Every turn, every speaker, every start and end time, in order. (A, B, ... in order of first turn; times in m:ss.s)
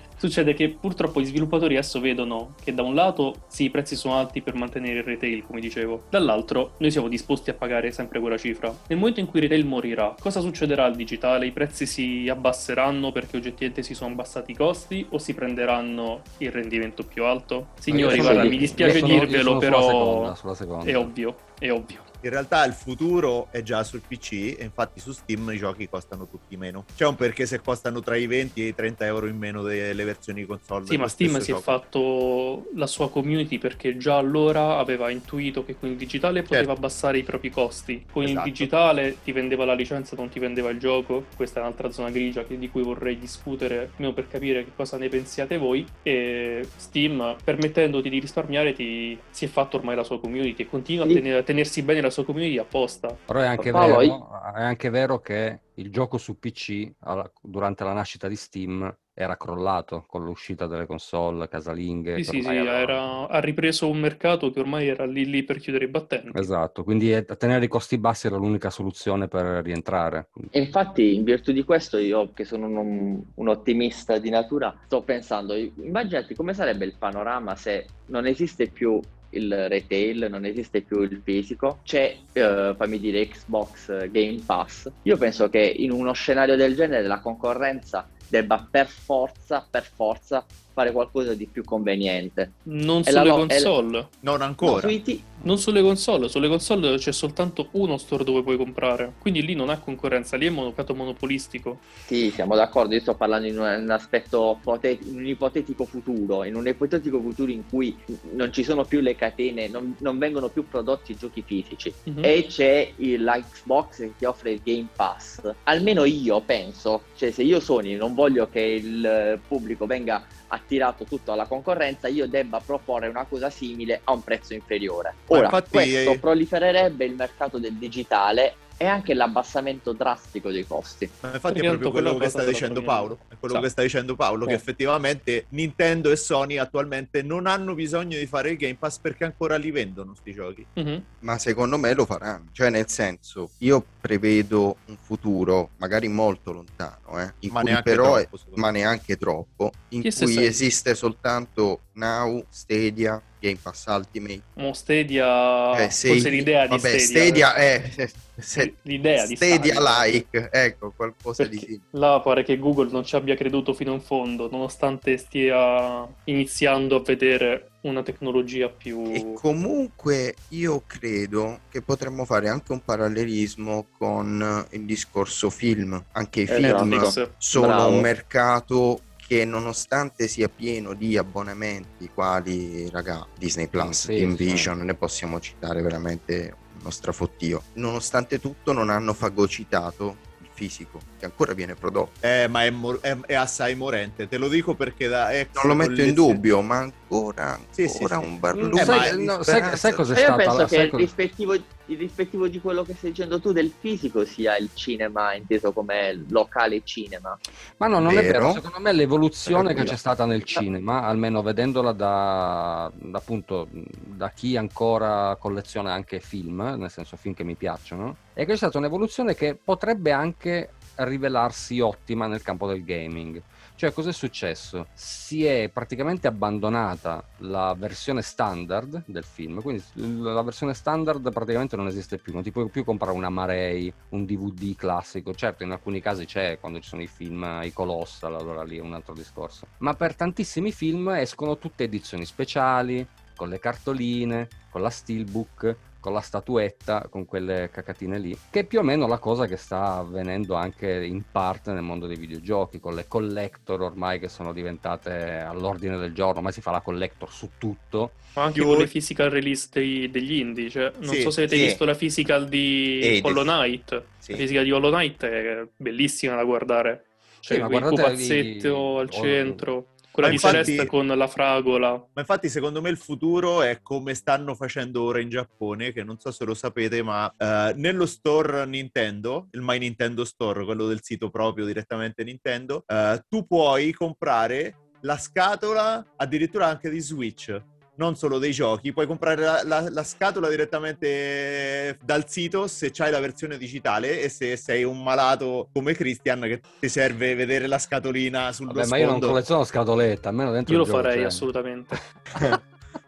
0:00.2-0:22.1 A
0:17.9-0:21.1 B
0:18.0-0:19.2 C
0:22.2-0:31.8 D
0:30.9-0:53.2 A
0:38.2-0:38.7 D
0:53.3-1:03.0 B
0:53.6-0:54.2 C
1:02.2-1:06.5 A
1:06.3-1:10.5 B
1:10.5-1:33.7 C
1:32.7-1:34.1 A
1:34.2-1:35.0 D
1:34.6-1:35.3 C
1:35.4-1:41.8 A
1:42.1-2:11.1 C
1:52.1-1:52.3 A
2:05.3-2:06.2 D
2:11.2-2:20.7 D
2:11.5-2:13.7 A
2:20.8-2:21.1 A
2:21.2-2:34.4 E
2:27.5-2:28.6 D
2:30.0-2:30.6 A
2:34.6-2:37.5 A
2:35.7-2:41.8 E
2:38.6-2:40.1 A
2:41.4-2:49.4 A
2:49.1-3:12.2 E
2:56.5-2:58.1 C
2:56.6-2:57.3 A
3:03.8-3:04.7 B
3:12.2-3:16.4 D
3:15.6-3:20.1 E
3:17.8-3:19.4 D
3:18.5-3:21.1 B
3:20.1-3:27.4 C
3:27.8-4:18.2 B
3:28.0-3:28.6 E
3:29.5-3:30.0 E
4:18.4-4:32.1 A
4:18.6-4:18.9 D
4:21.0-4:21.4 D
4:21.5-4:21.8 E
4:23.0-4:23.5 E
4:27.5-4:29.6 B
4:30.2-4:30.7 B
4:30.2-4:30.9 D
4:32.2-4:59.4 D
4:58.7-5:01.5 B
5:00.7-5:02.0 A